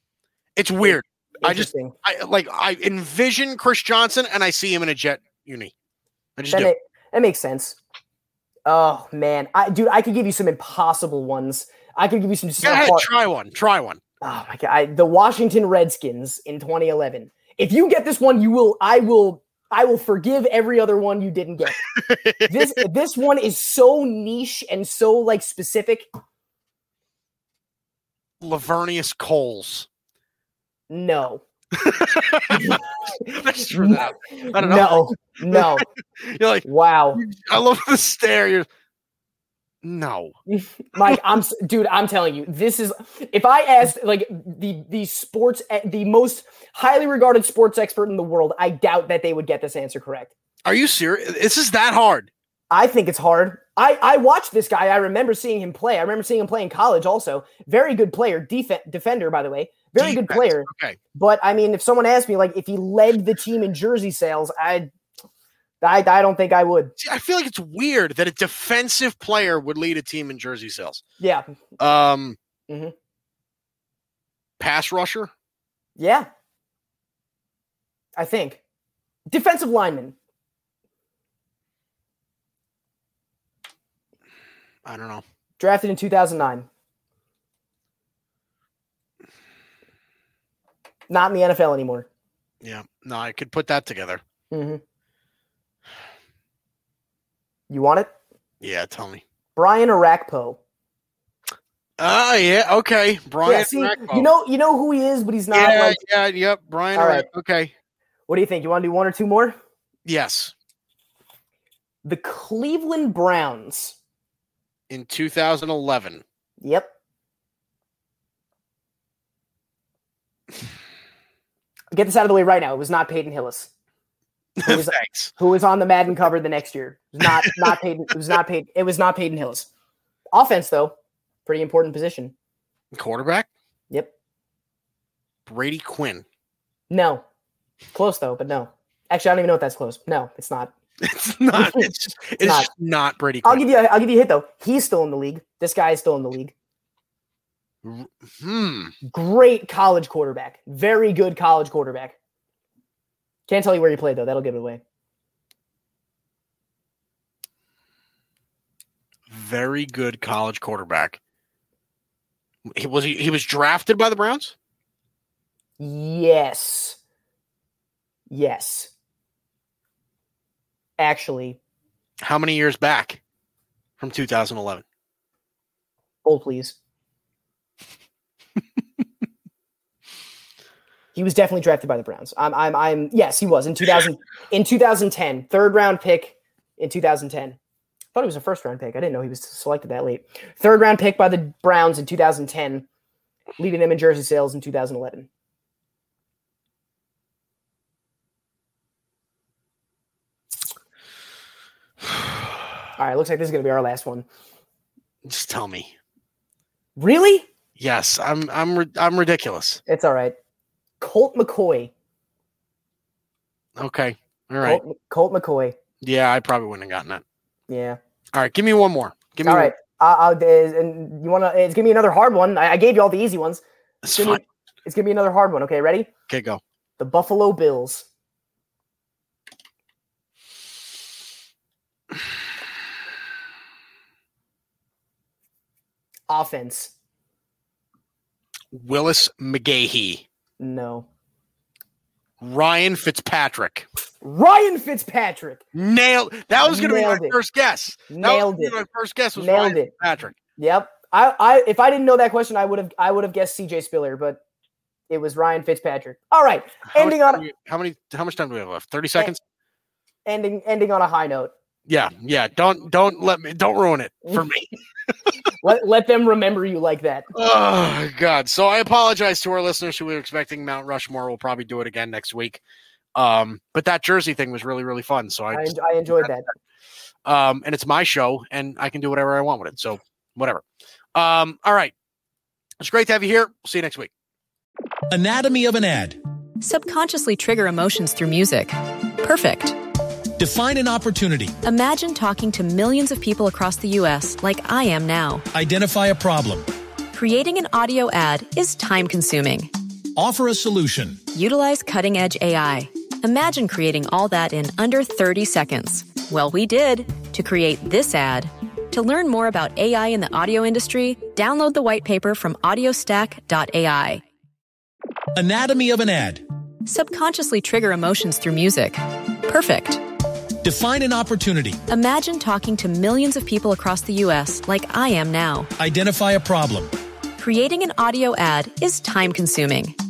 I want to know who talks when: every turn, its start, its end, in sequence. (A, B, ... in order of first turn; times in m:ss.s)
0:00.6-0:05.7 A
0:00.8-0:01.9 B
0:06.4-0:06.7 A
0:06.5-0:07.8 B
0:08.7-0:13.1 B
0:12.6-0:14.0 A
0:14.2-0:21.8 B
0:21.8-0:22.8 A
0:22.5-0:26.1 B
0:28.4-0:29.9 A
0:30.9-0:31.4 B
0:31.8-0:38.7 A
0:32.5-0:35.8 B
0:36.6-0:37.2 B
0:39.8-0:40.4 A
0:40.5-0:50.3 B
0:50.6-0:52.3 A
0:52.7-1:04.9 B
1:00.0-1:01.0 A
1:05.8-1:06.9 B
1:07.0-1:11.0 A
1:11.2-1:11.4 B
1:11.8-1:12.4 A
1:12.7-1:12.9 B
1:14.6-1:15.3 A
1:16.0-1:16.3 B
1:18.2-1:18.6 B
1:19.3-1:20.2 B
1:24.8-1:25.2 A
1:25.6-1:26.7 B
1:31.1-1:32.1 B
1:32.6-1:34.2 A
1:34.5-1:34.8 B
1:37.7-1:38.1 B
1:38.6-1:39.2 A
1:39.6-1:40.6 B
1:42.0-1:44.3 A
1:43.4-1:46.0 B
1:45.5-1:47.7 A
1:47.0-1:47.3 B
1:48.3-1:49.6 B
1:50.1-1:50.5 A
1:52.0-1:54.0 B
1:54.9-1:56.2 A
1:56.6-1:56.9 B
2:01.9-2:03.7 B
2:04.6-2:05.3 A
2:04.7-2:09.7 B
2:07.2-2:07.8 A
2:10.3-2:10.9 B
2:11.5-2:12.3 B
2:12.9-2:13.5 A
2:15.5-2:16.2 A
2:16.9-2:17.2 B
2:17.9-2:20.7 B
2:21.0-2:23.6 A
2:21.5-2:22.7 B
2:23.4-2:26.5 B
2:27.8-2:28.9 A
2:29.1-2:32.2 B
2:33.5-2:34.8 B
2:39.3-2:41.2 A
2:42.7-2:44.5 A
2:45.8-2:47.0 B
2:48.3-2:48.9 B
2:51.0-2:51.6 B
2:52.2-2:53.2 A
2:54.0-2:54.8 A
2:56.2-2:56.8 B
3:01.2-3:07.6 B
3:08.1-3:12.9 B
3:13.6-3:15.3 B
3:23.0-3:24.2 B
3:25.2-3:25.9 A
3:27.0-3:27.5 B
3:27.8-3:29.8 A
3:29.9-3:30.4 B
3:31.0-3:31.9 B
3:33.8-3:34.8 A
3:34.6-3:35.8 B
3:36.0-3:37.2 A
3:37.7-3:38.0 B
3:38.3-3:39.7 A
3:39.4-3:43.6 B
3:44.0-3:44.4 A
3:44.2-3:46.1 B
3:46.3-3:46.6 A
3:47.0-3:48.1 B
3:56.3-3:56.9 B
3:58.7-4:00.2 A
4:00.6-4:01.1 B
4:02.4-4:03.9 A
4:04.2-4:05.6 B
4:05.8-4:10.4 A
4:06.6-4:07.4 B
4:08.1-4:08.8 B
4:09.4-4:09.9 B
4:10.6-4:14.4 B
4:15.1-4:17.4 B
4:16.9-4:19.4 A
4:20.3-4:21.5 B
4:21.9-4:25.3 A
4:25.6-4:27.3 B
4:27.3-4:32.6 A
4:33.2-4:36.3 A
4:35.5-4:36.5 B
4:37.2-4:40.6 A
4:41.2-4:41.9 A
4:42.8-4:44.1 A
4:45.1-4:46.2 C
4:46.6-4:49.8 D
4:50.4-4:51.6 C
4:51.6-4:55.5 D
4:55.5-4:56.7 C
4:57.1-4:59.7 D
5:00.2-5:01.2 C
5:01.3-5:14.2 D
5:15.4-5:16.4 C
5:16.9-5:20.0 D
5:20.6-5:21.8 C
5:21.9-5:25.7 D
5:25.8-5:26.9 C
5:27.4-5:30.0 D